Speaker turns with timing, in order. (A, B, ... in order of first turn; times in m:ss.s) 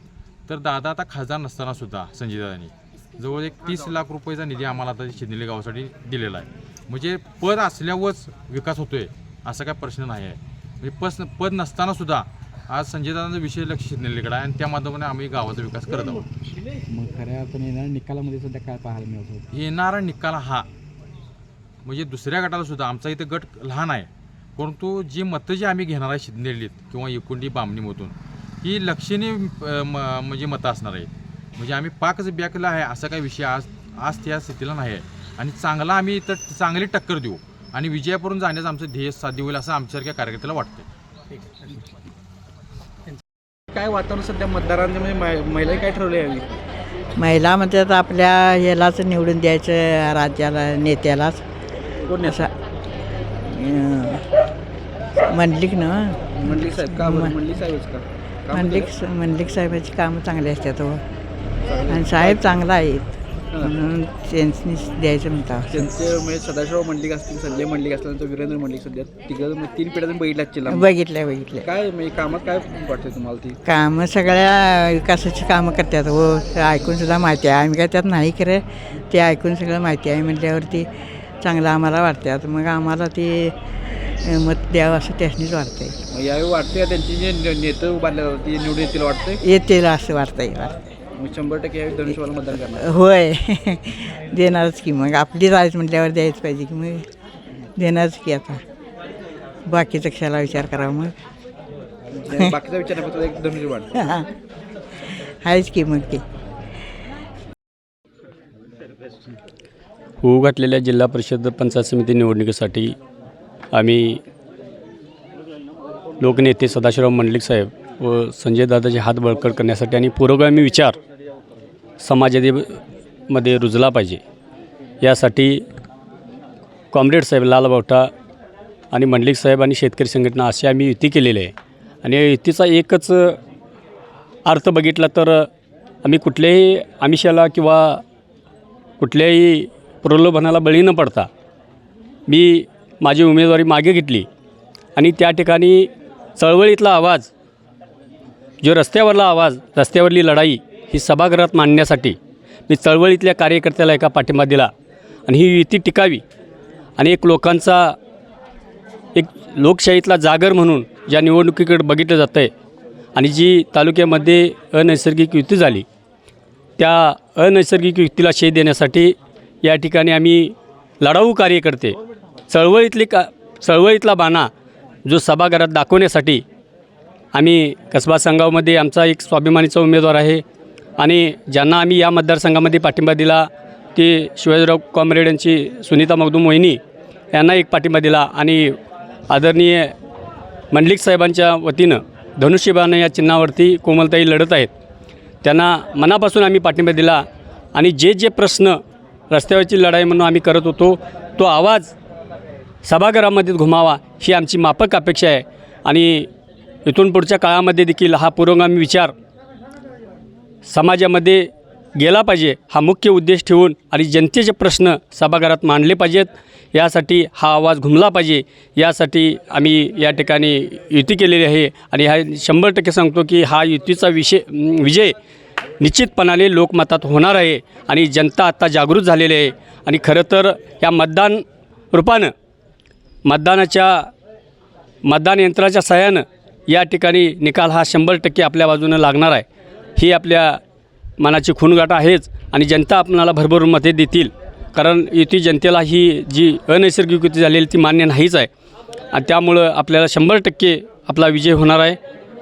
0:00.5-0:16.3 A
0:16.9-0:19.5 B
0:19.5-0:20.7 A
0:21.8-0:40.9 A
0:43.7-0:46.5 B
0:47.2-0:51.4 C
0:52.1-0:52.5 B
0:52.2-0:52.5 C
0:53.5-0:54.2 C
0:55.3-0:57.4 C
0:56.3-0:58.9 B
0:58.5-1:01.0 C
1:01.6-1:02.6 B
1:01.9-1:05.9 C
1:05.7-1:10.9 B
1:10.7-1:11.7 C
1:11.6-1:13.6 B
1:13.6-1:20.9 C
1:21.4-1:23.6 C
1:24.2-1:26.0 C
1:26.1-1:29.4 B
1:29.4-1:30.8 C
1:31.2-1:33.0 B
1:32.8-1:37.1 C
1:37.8-1:38.6 C
1:39.7-1:41.2 C
1:42.1-1:43.9 B
1:43.9-1:44.3 C
1:45.4-1:46.2 C
1:50.2-1:53.0 D
1:53.7-1:54.2 D
1:56.2-2:01.0 D
2:02.0-2:04.2 D
2:05.0-2:05.6 D
2:06.9-2:08.1 D
2:08.9-2:11.5 D
2:12.0-2:13.4 D
2:14.5-2:15.5 D
2:16.0-2:18.0 D
2:19.0-2:21.3 D
2:22.3-2:24.3 D
2:25.0-2:27.3 D
2:28.6-2:32.2 D
2:32.7-2:34.7 D
2:35.3-2:36.2 D
2:37.0-2:38.0 D
2:39.2-2:42.5 D
2:43.2-2:45.8 D
2:46.8-2:52.0 D
2:52.5-2:54.5 D
2:55.1-2:56.4 D
2:57.3-3:00.4 D
3:01.0-3:06.8 D
3:07.3-3:08.7 D
3:09.3-3:09.9 D
3:10.7-3:14.7 D
3:15.4-3:17.2 D
3:17.8-3:18.8 D
3:19.3-3:21.9 D
3:22.8-3:26.3 D
3:26.9-3:29.1 D
3:30.7-3:45.1 D
3:45.8-3:52.3 D
3:53.3-3:54.1 D
3:55.0-3:59.4 D
4:00.0-4:00.6 D
4:01.2-4:08.5 D
4:09.1-4:12.0 D